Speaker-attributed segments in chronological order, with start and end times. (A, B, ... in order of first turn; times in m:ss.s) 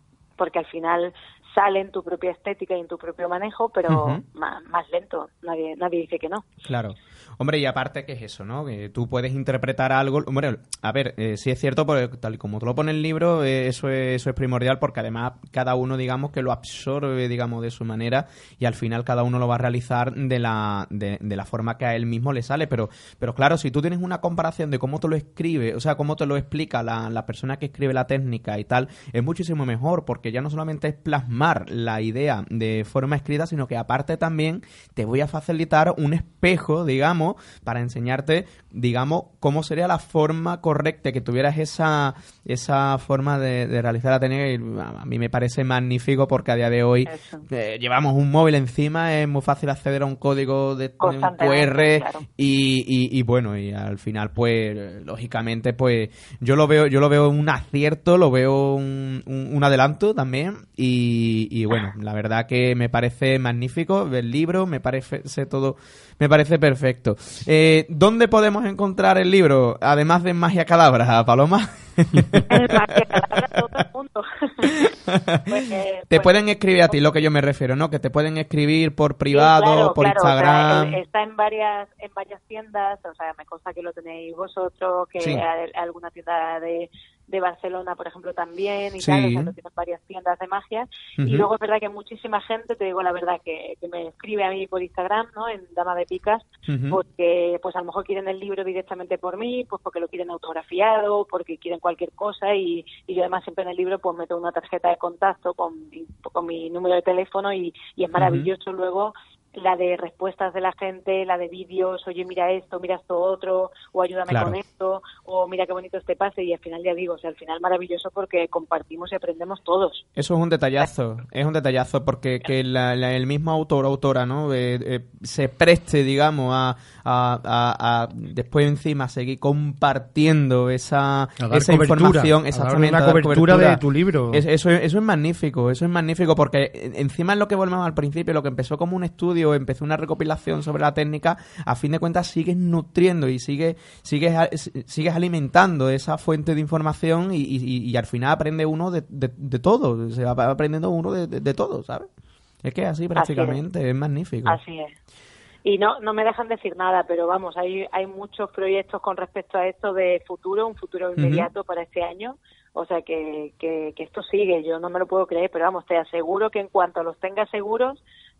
0:00.4-0:06.4 A
0:03.9-0:04.2 B
0:06.6-1:13.2 B
0:47.1-0:47.4 A
0:51.0-0:52.2 A
1:12.5-1:14.9 A
1:14.6-1:21.0 B
1:15.7-1:16.3 A
1:19.3-2:00.0 A
1:29.0-1:29.5 B
1:31.2-1:31.4 B
1:36.7-1:37.0 B
1:48.2-1:48.5 B
1:54.3-1:54.6 B
2:00.2-2:13.8 B
2:11.4-2:14.4 C
2:14.3-2:32.1 B
2:32.6-2:34.6 B
2:33.2-2:33.6 A
2:34.4-2:34.9 A
2:35.6-2:48.0 A
2:41.2-2:41.5 B